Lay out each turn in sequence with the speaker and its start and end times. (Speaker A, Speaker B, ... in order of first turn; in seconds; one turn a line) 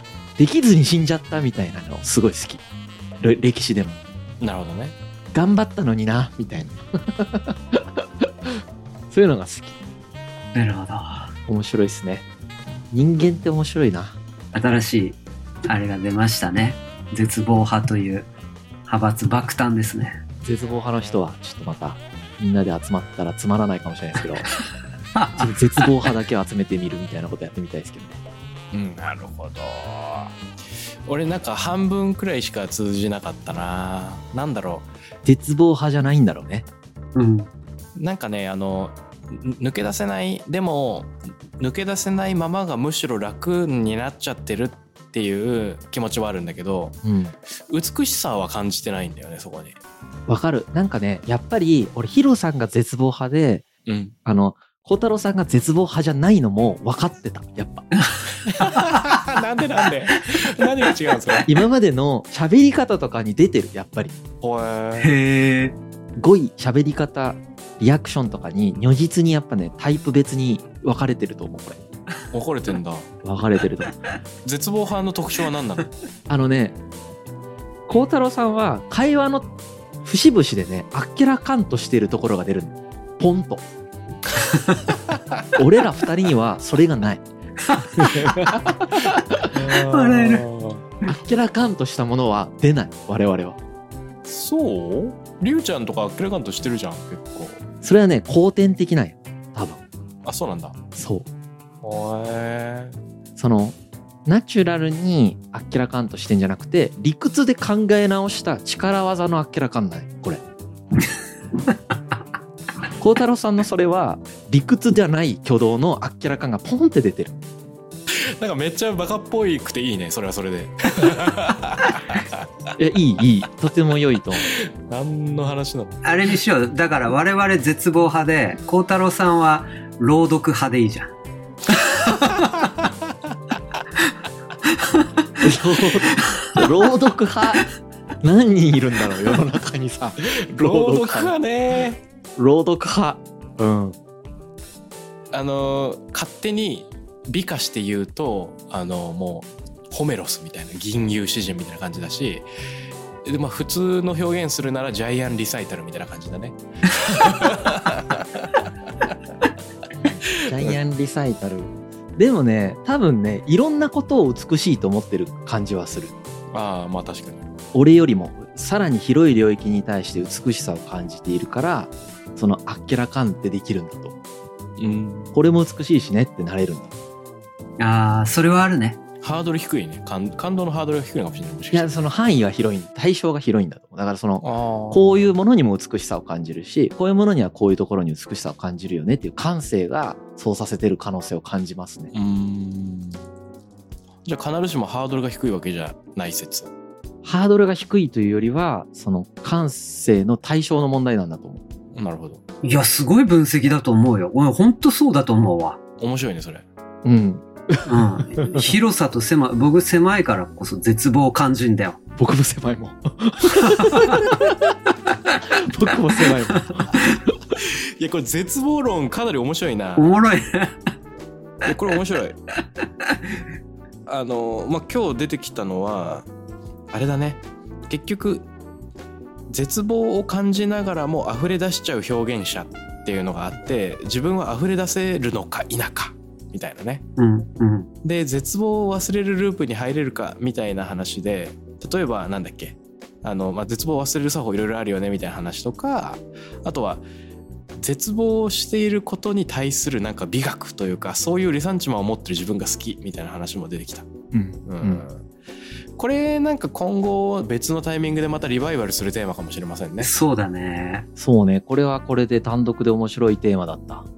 Speaker A: 0.4-2.6
Speaker A: 3.2-4.0
Speaker B: 4.4-4.9
Speaker A: 5.3-9.8
Speaker C: 10.5-11.3
Speaker A: 11.5-12.2
Speaker A: 12.9-14.2
Speaker C: 14.5-18.3
Speaker C: 18.9-20.2
Speaker A: 20.4-24.5
Speaker C: 25.1-25.9
Speaker A: 25.4-28.2
Speaker B: 28.7-30.3
Speaker B: 31.1-34.9
Speaker A: 35.2-36.6
Speaker C: 37.1-37.5
Speaker B: 38.0-47.0
Speaker A: 47.0-47.3
Speaker B: 47.7-49.8
Speaker A: 50.3-53.7
Speaker B: 53.9-54.1
Speaker A: 54.2-57.9
Speaker B: 58.5-61.5
Speaker C: 58.6-59.1
Speaker A: 61.5-64.2
Speaker B: 64.4-65.1
Speaker C: 65.0-65.8
Speaker A: 66.2-71.8
Speaker B: 72.3-73.1
Speaker A: 73.2-74.0
Speaker B: 74.4-75.9
Speaker A: 76.3-76.8
Speaker A: 77.9-79.5
Speaker A: 80.0-83.6
Speaker C: 84.5-84.8
Speaker A: 85.5-87.2
Speaker C: 87.7-88.0
Speaker A: 88.0-89.5
Speaker B: 89.5-90.8
Speaker C: 89.7-90.4
Speaker A: 91.0-93.6
Speaker B: 94.2-97.6
Speaker A: 97.8-99.8
Speaker B: 100.2-100.8
Speaker A: 101.0-101.3
Speaker B: 101.8-103.0
Speaker A: 103.4-110.4
Speaker A: 113.0-117.3
Speaker B: 118.1-122.5
Speaker A: 122.8-124.5
Speaker B: 124.4-126.0
Speaker C: 126.0-131.1
Speaker C: 131.7-132.5
Speaker A: 135.4-137.7
Speaker C: 136.2-136.4
Speaker A: 138.2-141.3
Speaker B: 140.2-142.0
Speaker A: 142.4-143.9
Speaker B: 145.3-152.4
Speaker B: 153.2-158.5
Speaker A: 160.1-166.1
Speaker B: 160.4-160.8
Speaker B: 166.5-167.4
Speaker A: 167.7-174.2
Speaker B: 174.8-175.3
Speaker A: 175.3-176.9
Speaker C: 177.8-179.0
Speaker B: 179.2-182.0
Speaker A: 181.7-192.1
Speaker B: 184.4-185.0
Speaker B: 192.1-193.2
Speaker B: 194.2-196.7
Speaker A: 197.2-201.6
Speaker B: 201.9-202.4
Speaker C: 202.6-205.8
Speaker B: 206.0-206.6
Speaker A: 207.0-208.7
Speaker C: 207.9-212.0
Speaker A: 212.2-214.8
Speaker C: 213.7-214.2
Speaker A: 215.5-217.1
Speaker B: 217.5-220.1
Speaker C: 220.0-220.8
Speaker B: 221.6-222.4
Speaker B: 224.1-226.3
Speaker B: 226.9-228.5
Speaker B: 229.5-237.0
Speaker C: 237.2-237.9
Speaker B: 238.0-247.0
Speaker B: 247.8-254.1
Speaker A: 254.3-255.0
Speaker B: 254.7-255.2
Speaker B: 256.0-260.1
Speaker C: 260.0-261.1
Speaker A: 261.2-264.1